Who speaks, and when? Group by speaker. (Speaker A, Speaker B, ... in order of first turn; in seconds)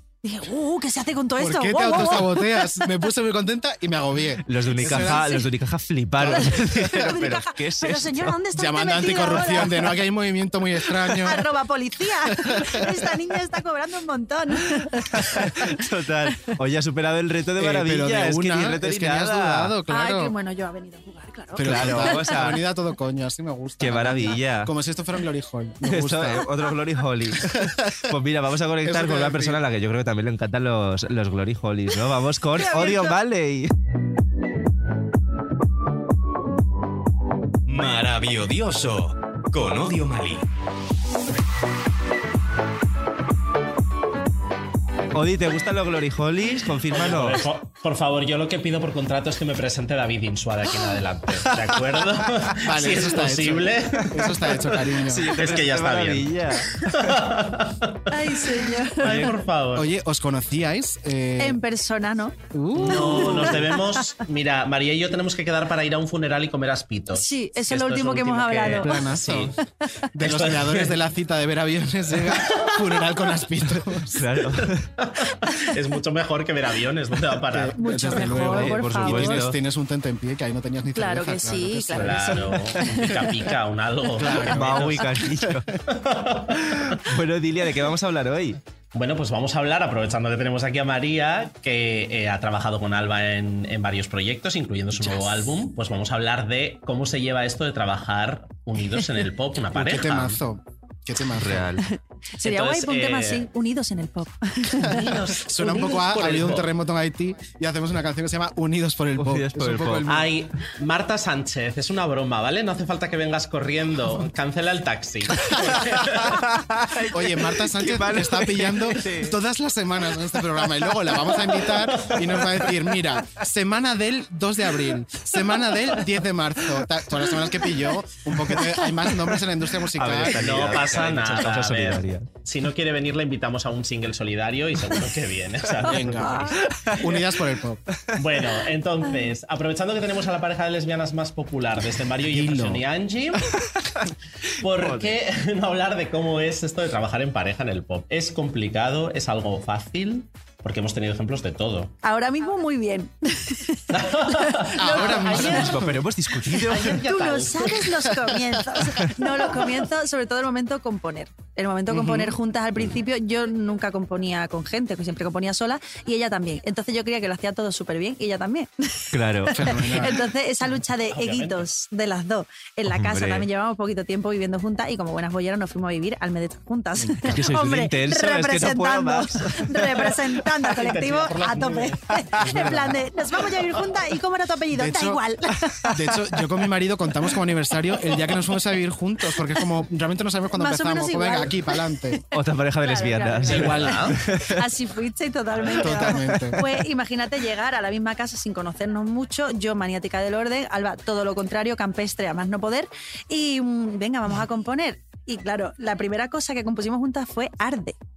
Speaker A: 0.2-2.9, 4.8-5.5, 6.3-10.0, 11.1-15.7, 19.9-22.5, 32.6-33.1, 58.1-59.3, 61.4-64.0, 67.1-69.0, 77.7-79.5, 80.9-83.3, 101.8-105.1, 136.0-136.6, 152.0-155.7, 156.9-185.9, 190.5-192.2, 192.8-207.9
Speaker B: 1.4-5.4, 6.2-6.9, 8.5-11.5, 12.3-12.9, 17.6-20.3, 21.6-26.5, 27.5-27.9, 28.8-29.6, 52.6-55.3, 59.7-61.6, 62.5-63.7, 68.8-69.5, 70.1-74.2, 77.5-82.7, 84.1-85.6, 99.7-101.7, 104.9-110.4, 117.1-130.8, 135.8-137.8, 142.3-142.8, 154.8-156.0, 161.9-162.4, 169.5-170.2, 177.0-177.4, 182.4-183.0, 184.7-185.3, 185.9-192.2, 193.5-194.1, 195.7-196.6
Speaker C: 4.5-8.3, 15.1-19.7, 21.6-22.6, 23.8-24.7, 25.8-33.7, 45.1-47.5, 51.4-51.9, 54.0-57.2, 74.0-74.9, 78.2-79.6, 84.4-85.7, 86.6-88.6, 101.3-101.8, 109.2-110.1, 115.5-119.4, 129.9-132.3, 144.7-145.2, 155.3-157.0, 169.1-169.8, 172.8-173.5, 177.3-180.1, 192.3-194.6, 196.2-196.5
Speaker D: 37.7-40.5
Speaker E: 46.9-54.1, 55.3-59.9, 62.8-69.5, 70.2-71.0, 72.3-73.0, 75.0-77.8, 81.9-85.0, 85.9-86.7, 88.9-100.4, 102.4-103.5, 104.8-106.7, 110.1-116.4, 121.8-122.7, 130.2-136.5, 138.2-143.5, 144.6-151.9, 153.9-155.7, 156.6-157.8, 170.9-171.7, 180.7-182.2, 183.5-184.0, 193.4-194.2